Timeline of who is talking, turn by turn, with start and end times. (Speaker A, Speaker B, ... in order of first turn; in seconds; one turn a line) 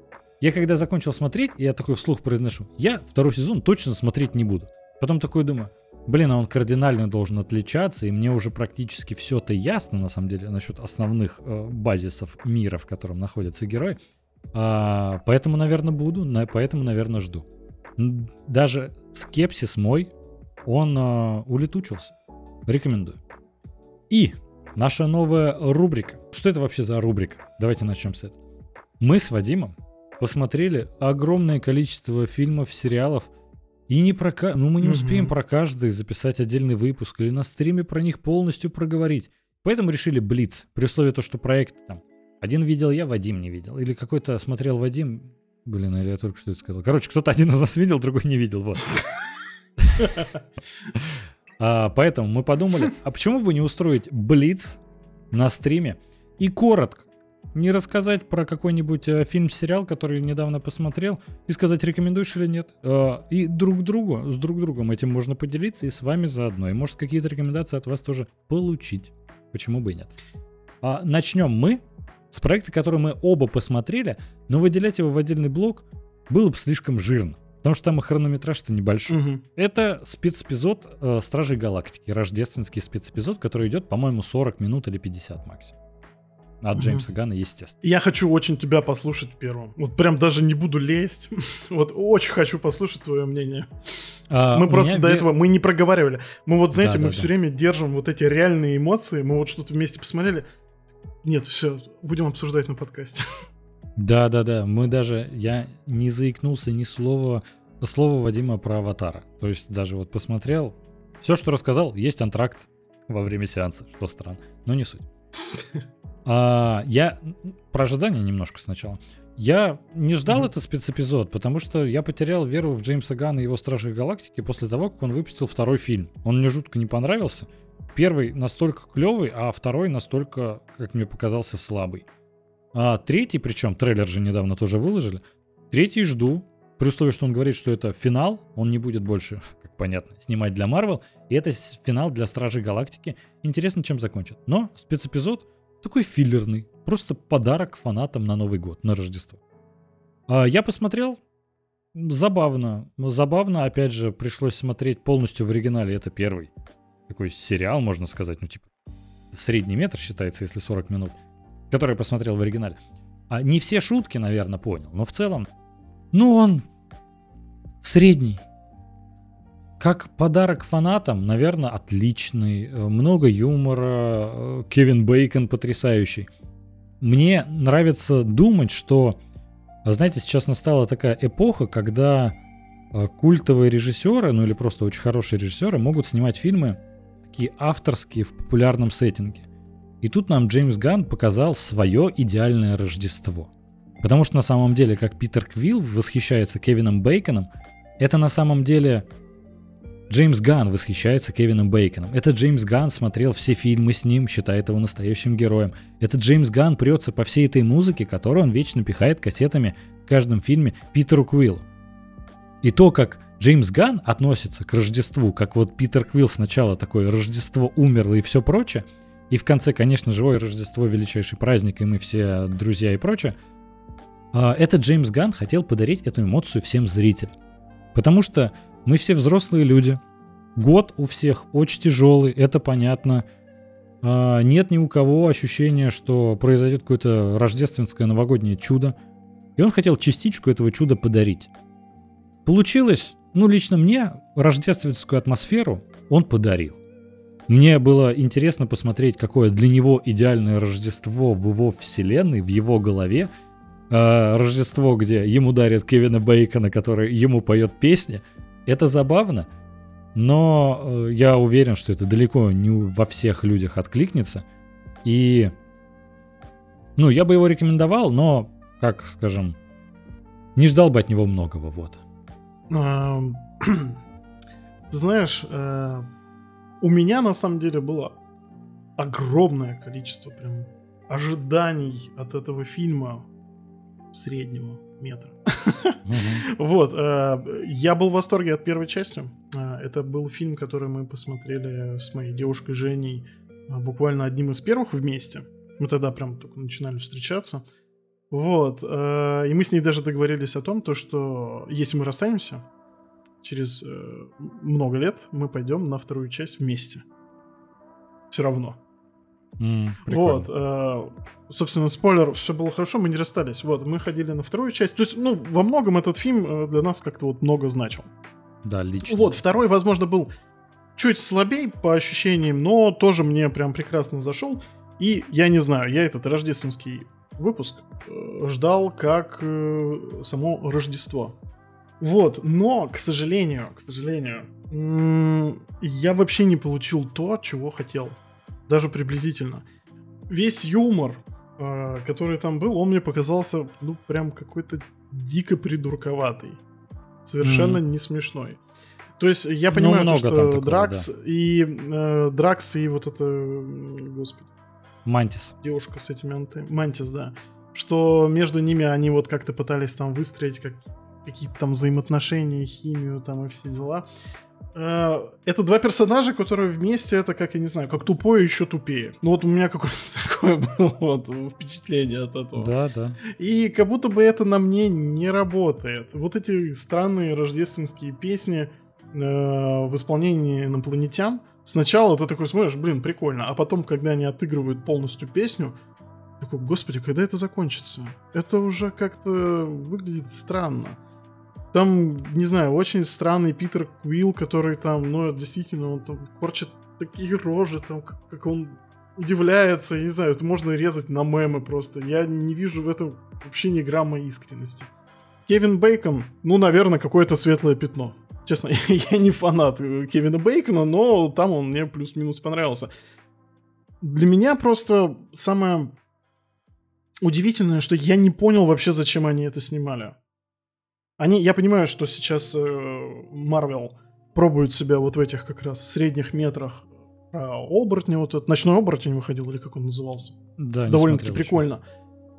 Speaker A: 0.4-14.0
Speaker A: 14.5-17.5
Speaker A: 18.0-20.1
Speaker A: 20.6-22.1
Speaker A: 22.7-23.2
Speaker A: 24.1-28.4
Speaker A: 29.0-33.3
Speaker A: 33.9-49.0
Speaker B: 34.8-35.3
Speaker A: 49.8-50.3
Speaker B: 50.0-50.2
Speaker A: 51.0-54.8
Speaker A: 55.3-70.1
Speaker A: 70.8-85.8
Speaker B: 79.1-79.4
Speaker A: 86.6-87.8
Speaker B: 86.8-87.1
Speaker B: 87.8-93.7
Speaker A: 94.3-95.3
Speaker B: 94.5-100.5
Speaker A: 96.7-97.3
Speaker B: 101.2-103.2
Speaker A: 104.0-115.1
Speaker A: 116.2-132.1
Speaker A: 132.7-149.4
Speaker A: 150.3-151.2
Speaker A: 151.9-156.5
Speaker A: 157.1-158.7
Speaker A: 159.3-161.2
Speaker A: 161.7-162.8
Speaker A: 163.3-165.5
Speaker A: 166.1-166.6
Speaker A: 167.8-168.4
Speaker A: 169.8-176.3
Speaker A: 177.0-179.2
Speaker A: 179.8-182.4
Speaker A: 182.9-189.5
Speaker A: 190.0-193.5
Speaker A: 194.0-197.5
Speaker A: 198.0-199.1
Speaker A: 200.1-211.7
Speaker A: 212.6-223.3
Speaker A: 224.3-227.3
Speaker A: 227.9-230.0
Speaker A: 230.6-233.2
Speaker A: 234.0-239.0
Speaker A: 239.6-241.5
Speaker A: 242.4-246.8
Speaker A: 247.5-253.3
Speaker A: 253.9-259.5
Speaker A: 260.1-264.4
Speaker A: 265.0-265.5
Speaker A: 267.0-269.6
Speaker A: 270.6-272.0
Speaker B: 272.7-274.0
Speaker B: 274.9-276.1
Speaker B: 276.8-278.1
Speaker B: 279.0-283.3
Speaker B: 284.1-297.6
Speaker A: 286.1-286.4
Speaker B: 298.3-302.6
Speaker B: 303.4-307.0
Speaker B: 308.3-308.8
Speaker A: 309.6-310.5
Speaker B: 310.1-318.1
Speaker A: 318.6-319.3
Speaker B: 319.1-320.3
Speaker B: 321.0-331.4
Speaker B: 332.0-338.2
Speaker B: 338.7-339.6
Speaker B: 340.3-346.6
Speaker B: 347.2-348.6
Speaker A: 347.4-347.8
Speaker B: 349.2-354.5
Speaker A: 349.7-351.1
Speaker A: 355.1-355.6
Speaker B: 355.6-364.1
Speaker B: 364.8-372.7
Speaker A: 372.6-373.2
Speaker B: 373.2-385.8
Speaker B: 386.4-391.0
Speaker B: 391.7-404.9
Speaker B: 405.5-412.9
Speaker B: 414.0-415.9
Speaker B: 417.2-420.2
Speaker B: 421.2-430.4
Speaker A: 430.6-431.6
Speaker B: 430.9-431.8